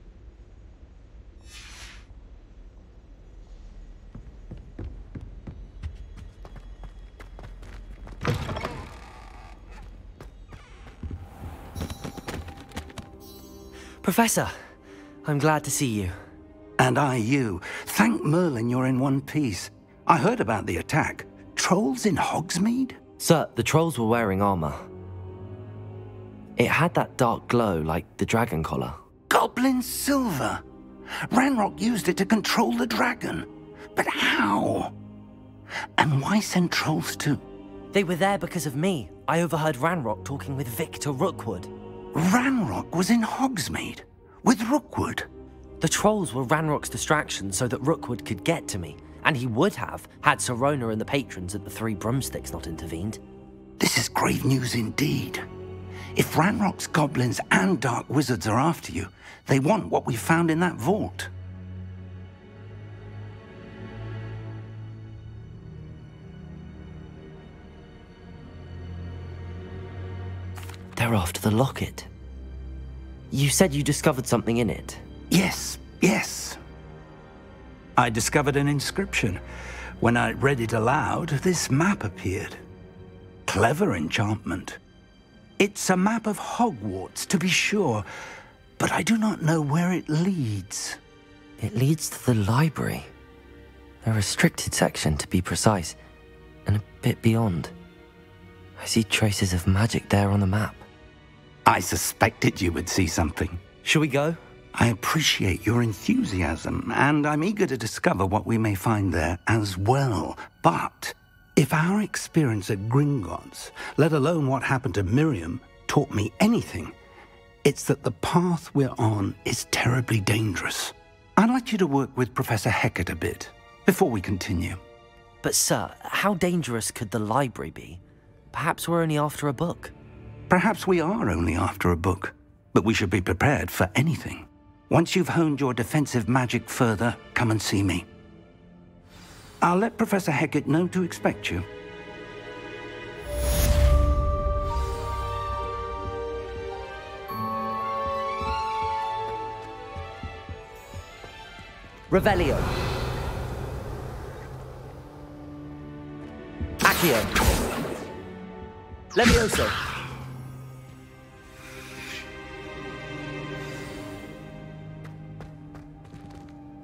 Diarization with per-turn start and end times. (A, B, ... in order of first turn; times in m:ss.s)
0:14.0-0:14.6 A
0:15.2-0:16.2 A
0:16.8-0:23.0 B
0:23.2-0:24.9 A
0:26.6-0:29.0 A
0:29.3-0:30.6 B
0:31.3-0:34.9 B
0:36.0-0:37.4 B
0:37.9-0:41.7 A
0:42.1-0:45.3 B
0:45.8-0:53.2 A
0:53.8-0:55.4 B
0:56.1-1:01.3 B
1:11.0-1:12.1 A
1:13.3-1:15.0 A
1:15.3-1:16.6 B
1:18.0-1:19.4 B
1:20.0-1:22.6 B
1:23.5-1:24.8 B
1:25.6-1:28.0 B
1:28.8-1:31.0 B
1:31.6-1:33.1 A
1:34.0-1:36.0 A
1:36.7-1:37.7 A
1:38.8-1:40.8 A
1:41.7-1:43.6 B
1:43.8-1:44.4 A
1:44.7-1:57.0 B
1:57.6-2:04.8 B
2:05.4-2:08.0 A
2:08.5-2:09.9 A
2:10.5-2:18.1 B
2:19.6-2:21.7 B
2:32.1-2:32.7 A
2:36.8-2:37.3 A
2:39.2-2:39.8 A